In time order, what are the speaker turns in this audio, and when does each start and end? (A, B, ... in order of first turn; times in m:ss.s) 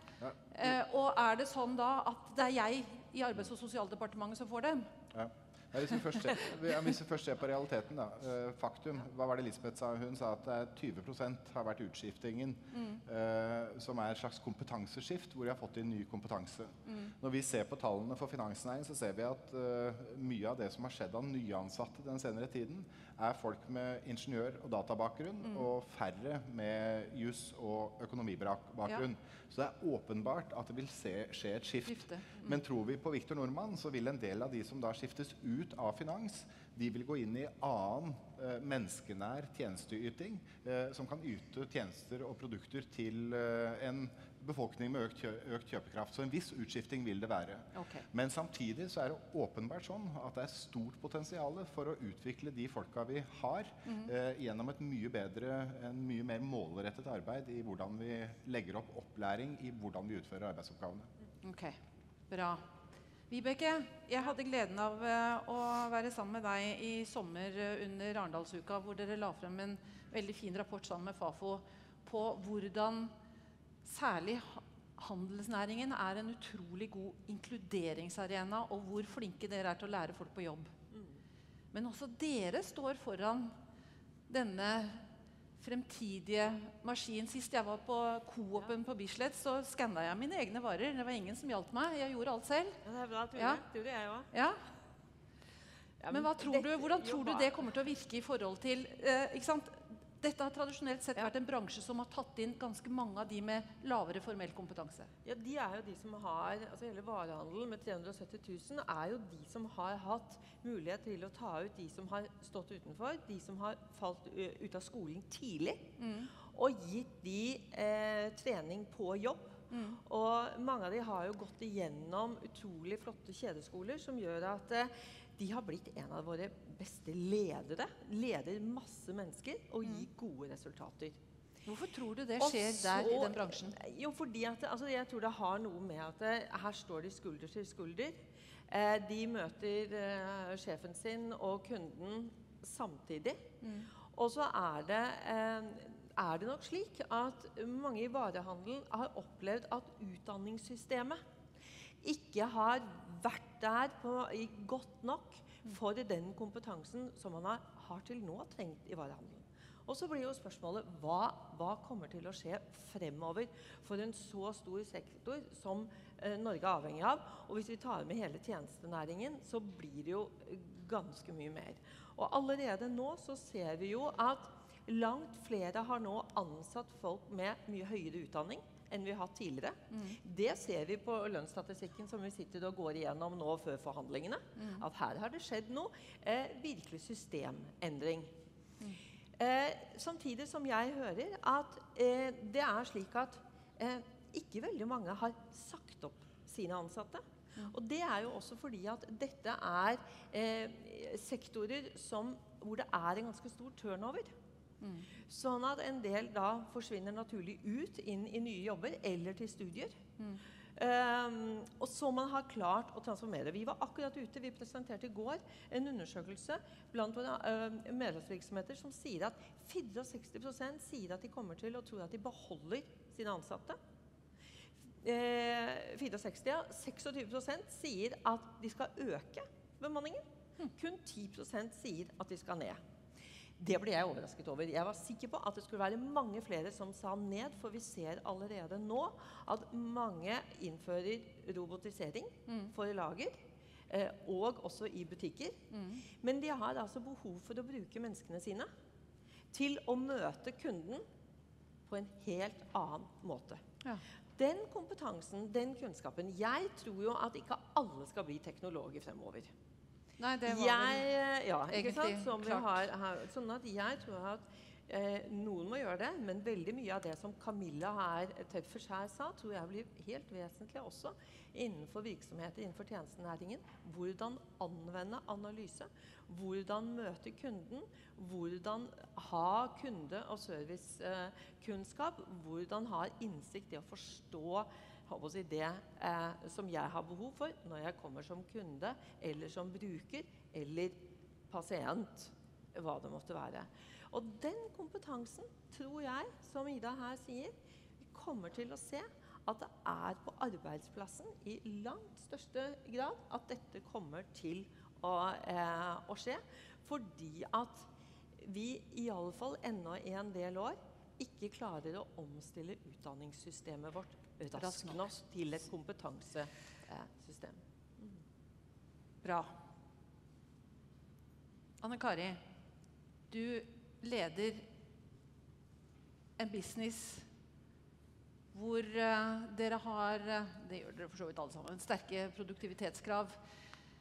0:00.2-0:00.7 A
0:00.5-0:04.9 B
0:05.1-1:01.1 A
0:12.7-0:13.0 B
0:31.8-0:32.4 B
0:47.8-0:48.0 B
1:01.4-1:01.8 B
1:02.3-1:02.7 B
1:03.3-1:13.1 B
1:13.8-1:20.7 B
1:21.7-1:23.5 B
1:24.3-1:25.0 B
1:25.6-1:32.8 B
1:32.8-1:34.3 C
1:33.4-1:33.6 B
1:34.3-1:34.6 B
1:36.0-1:37.6 C
1:36.1-1:45.1 B
1:45.2-2:11.2 C
1:56.0-1:56.3 B
1:59.7-2:00.0 B
2:11.7-2:13.8 B
2:12.4-2:23.5 C
2:23.6-2:23.9 B
2:24.1-2:31.2 C
2:32.0-3:08.3 C
2:59.9-3:00.2 B
3:04.6-3:04.8 B
3:09.4-3:24.3 C
3:24.8-3:25.1 B
3:25.2-3:30.0 C
3:30.8-3:43.8 C
3:45.0-3:52.8 C
3:53.6-4:03.4 C
4:02.5-4:02.7 B
4:03.9-4:05.6 C
4:05.7-4:06.0 B
4:06.2-4:08.7 C
4:09.5-4:11.0 C
4:11.9-4:13.6 C
4:14.4-4:19.5 C
4:20.2-4:21.1 B
4:20.5-5:07.9 C
4:21.7-4:22.8 B
5:08.4-5:18.2 C
5:14.5-5:15.1 B
5:19.2-5:19.6 B
5:21.8-5:22.4 B
5:23.3-5:24.7 B
5:26.4-5:27.3 B
5:28.5-5:33.4 B